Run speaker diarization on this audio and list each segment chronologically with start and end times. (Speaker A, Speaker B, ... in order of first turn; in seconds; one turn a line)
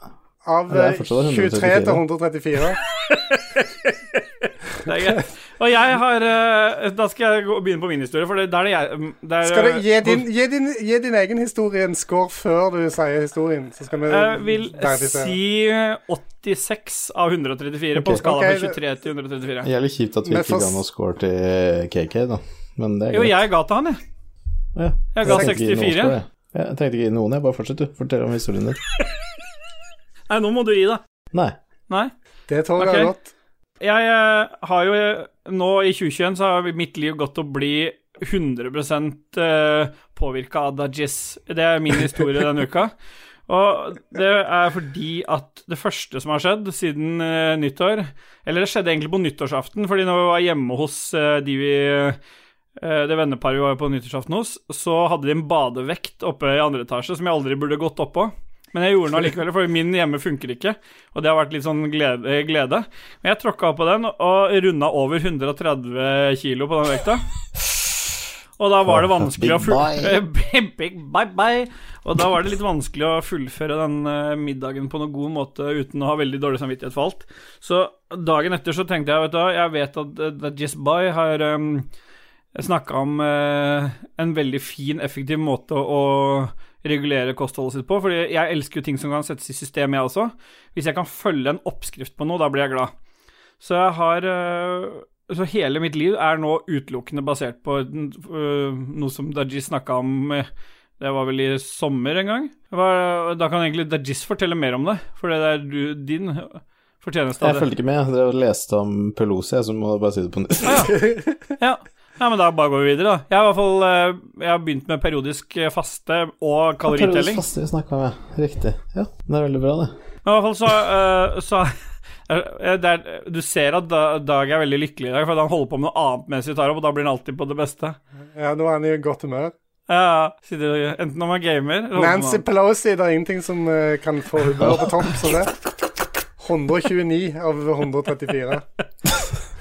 Speaker A: 0.4-2.8
Speaker B: 0.7-2.0
Speaker C: 3.0-10.2
Speaker A: 9.4-15.3
Speaker C: 14.1-19.7
Speaker B: 17.9-18.2
Speaker A: 18.2-18.8
Speaker B: 19.6-23.5
Speaker A: 20.2-20.8
Speaker C: 23.1-24.0
Speaker B: 24.8-28.8
Speaker C: 25.1-26.2
Speaker C: 30.3-31.0
Speaker A: 32.5-33.3
Speaker C: 32.8-33.1
Speaker C: 33.8-42.9
Speaker C: 43.5-52.2
Speaker C: 52.8-67.2
Speaker C: 68.6-81.9
Speaker B: 68.8-70.2
Speaker C: 82.5-92.9
Speaker C: 93.6-100.5
Speaker C: 101.0-107.7
Speaker B: 107.4-111.0
Speaker C: 110.6-117.4
Speaker B: 116.8-120.0
Speaker C: 120.2-121.8
Speaker C: 122.3-128.0
Speaker A: 128.3-129.5
Speaker C: 129.9-132.4
Speaker A: 131.9-135.5
Speaker A: 136.4-138.6